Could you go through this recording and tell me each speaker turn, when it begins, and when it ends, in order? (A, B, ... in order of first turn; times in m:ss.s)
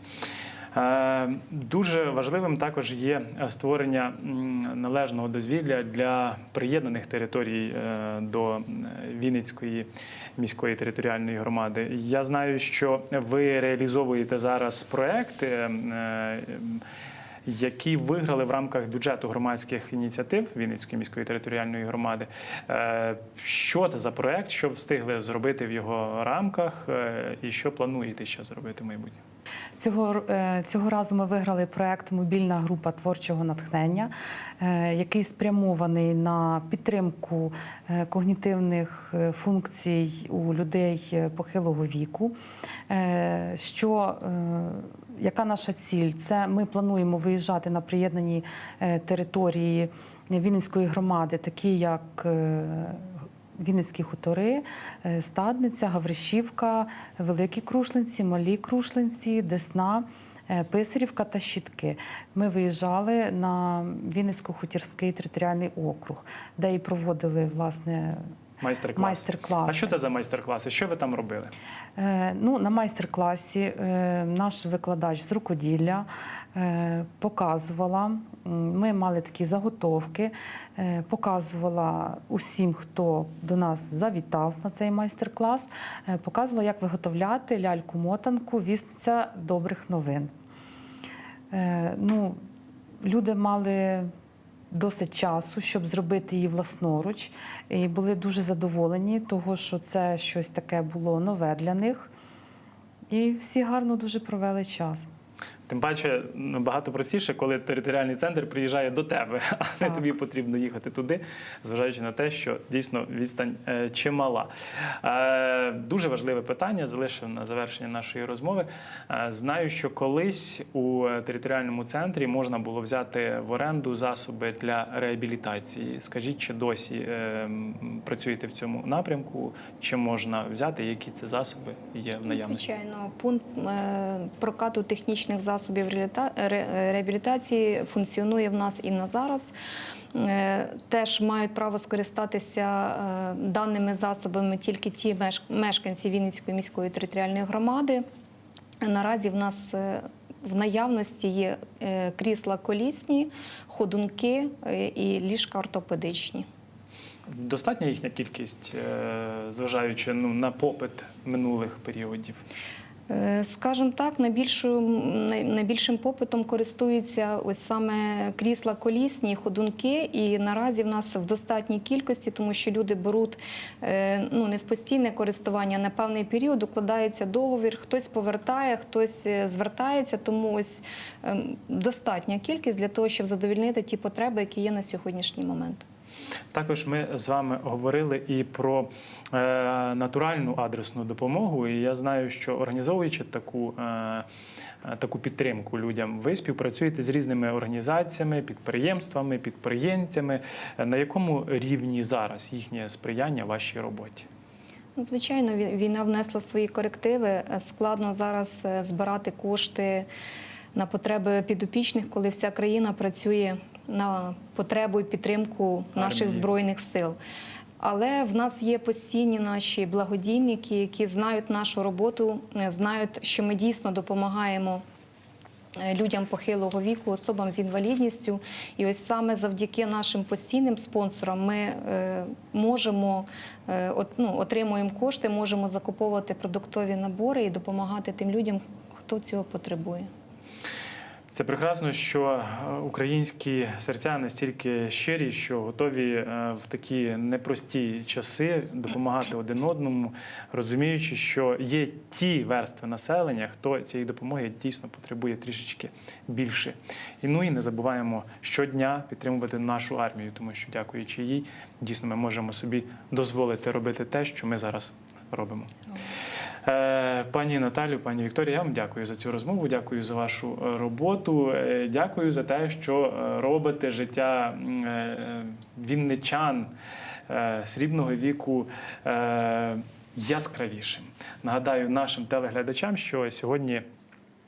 0:00.7-0:16.8 A
0:17.5-0:29.2 A
0:29.8-0:42.4 B
0:42.9-1:08.2 B
1:08.6-1:11.5 A
1:09.0-1:09.9 B
1:12.0-1:30.3 B
1:31.5-1:32.4 B
1:33.0-1:34.1 B
1:34.7-1:42.1 B
1:43.1-1:45.1 B
1:45.7-1:54.5 A
1:55.0-2:12.6 A
2:12.2-2:19.5 C
2:20.1-2:28.0 C
2:28.8-2:36.5 C
2:37.3-2:42.4 A
2:43.1-3:05.8 C
3:06.5-3:14.3 A
3:14.8-3:24.3 A
3:25.0-3:30.1 C
3:30.7-3:37.2 C
3:36.0-3:36.5 A
3:37.8-3:44.8 C
3:45.8-4:00.1 C
4:01.3-4:25.7 A
4:26.6-4:36.7 A
4:37.3-4:43.8 A